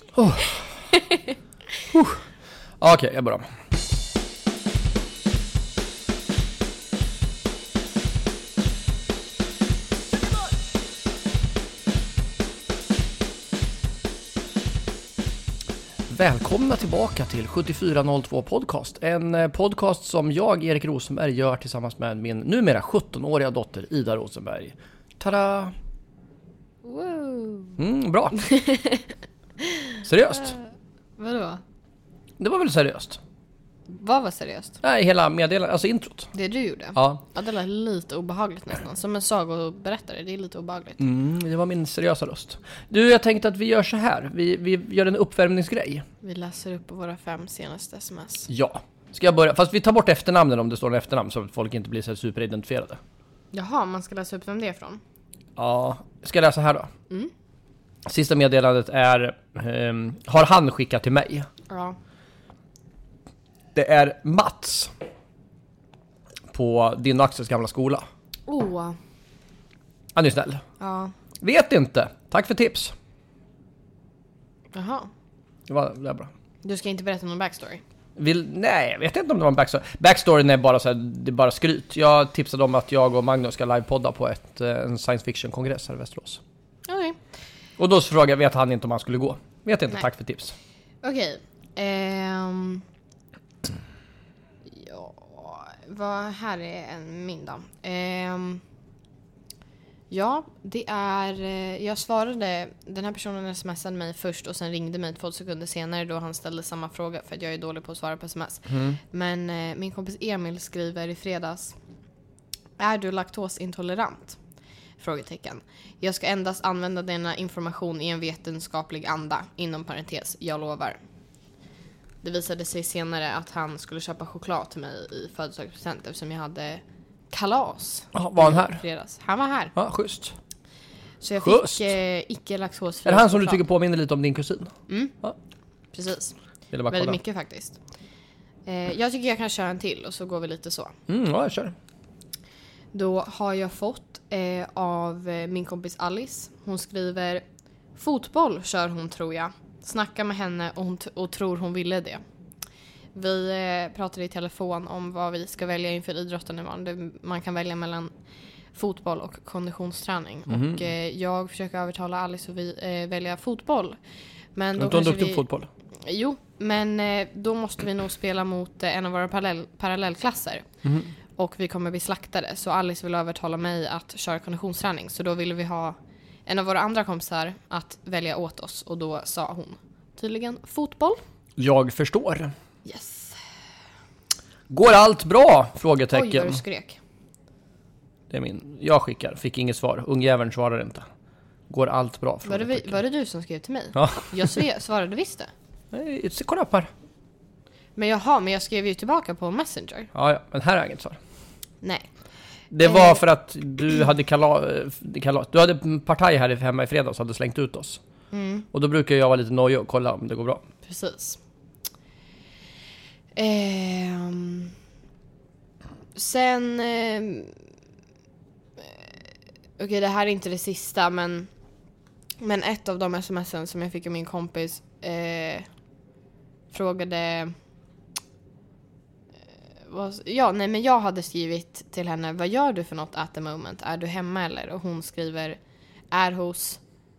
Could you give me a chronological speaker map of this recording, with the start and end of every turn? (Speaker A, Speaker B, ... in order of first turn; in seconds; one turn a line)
Speaker A: 0.1-0.7
Speaker B: 0.9-1.4
Speaker A: 1.9-2.2
Speaker A: 2.8-3.5
Speaker A: 16.1-25.8
Speaker B: 26.8-27.8
Speaker A: 27.8-28.5
Speaker B: 28.4-30.6
Speaker A: 30.0-30.6
Speaker B: 31.2-31.6
Speaker A: 32.4-33.2
Speaker B: 33.9-34.8
Speaker A: 34.8-36.3
Speaker B: 36.3-41.0
Speaker A: 37.0-37.2
Speaker A: 41.0-46.1
Speaker B: 46.2-48.5
Speaker A: 48.5-53.0
Speaker B: 53.5-55.0
Speaker A: 55.6-56.9
Speaker A: 58.1-61.5
Speaker B: 61.7-62.0
Speaker A: 63.8-64.9
Speaker A: 66.5-68.1
Speaker B: 68.5-69.0
Speaker A: 70.2-70.6
Speaker B: 70.8-71.1
Speaker A: 71.4-72.9
Speaker B: 74.7-75.1
Speaker A: 75.7-76.3
Speaker B: 76.6-77.8
Speaker A: 78.2-86.4
Speaker B: 86.9-87.2
Speaker A: 87.8-90.5
Speaker B: 91.0-92.8
Speaker B: 94.7-98.6
Speaker B: 100.1-111.8
Speaker A: 108.7-109.0
Speaker B: 112.8-114.4
Speaker B: 115.0-121.0
Speaker B: 122.2-129.7
Speaker A: 128.1-128.8
Speaker A: 129.7-130.3
Speaker B: 131.2-133.6
Speaker A: 131.4-131.9
Speaker A: 133.1-135.4
Speaker B: 134.9-135.2
Speaker B: 135.9-136.4
Speaker A: 136.7-137.2
Speaker B: 136.9-137.8
Speaker B: 138.7-141.0
Speaker A: 141.1-141.7
Speaker B: 142.9-147.4
Speaker B: 148.0-152.2
Speaker B: 153.1-158.1
Speaker B: 158.7-164.0
Speaker A: 160.5-160.9
Speaker B: 164.6-170.7
Speaker A: 164.8-165.7
Speaker A: 170.8-171.1
Speaker B: 171.4-181.2
Speaker A: 181.6-182.5
Speaker B: 182.8-183.4
Speaker A: 184.7-186.6
Speaker B: 186.1-187.0
Speaker A: 188.3-191.1
Speaker A: 191.7-193.0
Speaker B: 192.4-195.5
Speaker A: 193.9-194.6
Speaker A: 195.9-196.9
Speaker B: 198.0-200.1
Speaker A: 200.1-201.2
Speaker B: 201.8-202.1
Speaker A: 202.7-208.0
Speaker B: 202.8-203.2
Speaker B: 208.3-208.7
Speaker A: 208.7-210.6
Speaker B: 210.8-211.4
Speaker B: 213.3-214.7
Speaker B: 216.2-217.6
Speaker B: 218.8-219.2
Speaker B: 219.8-221.5
Speaker B: 222.4-225.7
Speaker B: 226.7-227.5
Speaker B: 229.8-235.6
Speaker B: 236.1-236.8